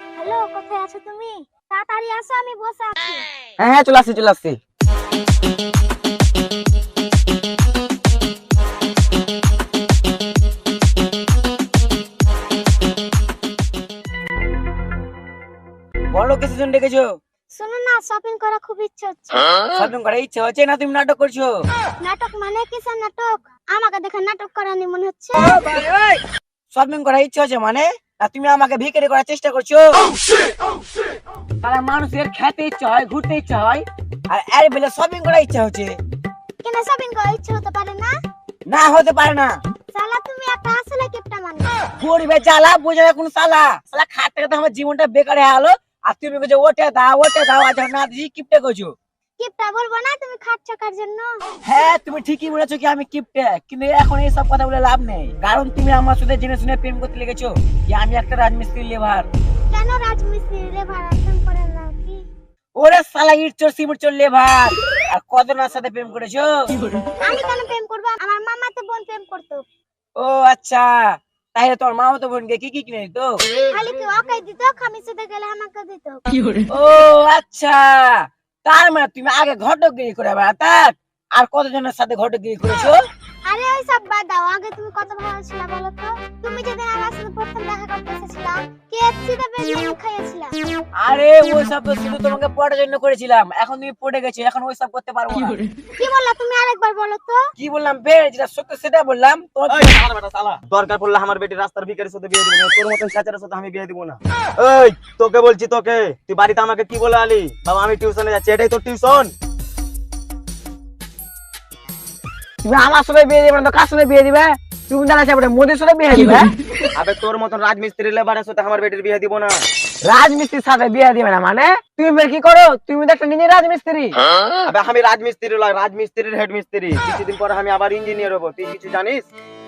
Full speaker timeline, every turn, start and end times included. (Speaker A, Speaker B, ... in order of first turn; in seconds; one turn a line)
Speaker A: 0.2-3.3
Speaker B: 3.6-4.6
Speaker B: 16.1-17.2
Speaker A: 17.5-19.6
Speaker B: 19.7-21.6
Speaker A: 22.0-25.6
Speaker B: 25.4-30.1
Speaker B: 31.6-36.0
Speaker A: 36.6-38.1
Speaker B: 38.7-39.6
Speaker A: 39.9-41.8
Speaker B: 42.0-49.0
Speaker A: 49.4-51.4
Speaker B: 51.6-59.3
Speaker A: 59.7-62.2
Speaker B: 62.8-66.7
Speaker A: 67.2-69.7
Speaker B: 70.2-73.4
Speaker A: 73.7-76.3
Speaker B: 76.7-83.0
Speaker A: 83.5-90.5
Speaker B: 91.0-95.6
Speaker A: 96.0-97.5
Speaker B: 97.6-100.0
Speaker C: 99.7-109.3
Speaker B: 112.6-116.5
Speaker C: 117.0-119.6
Speaker B: 120.0-124.2
Speaker C: 124.6-129.3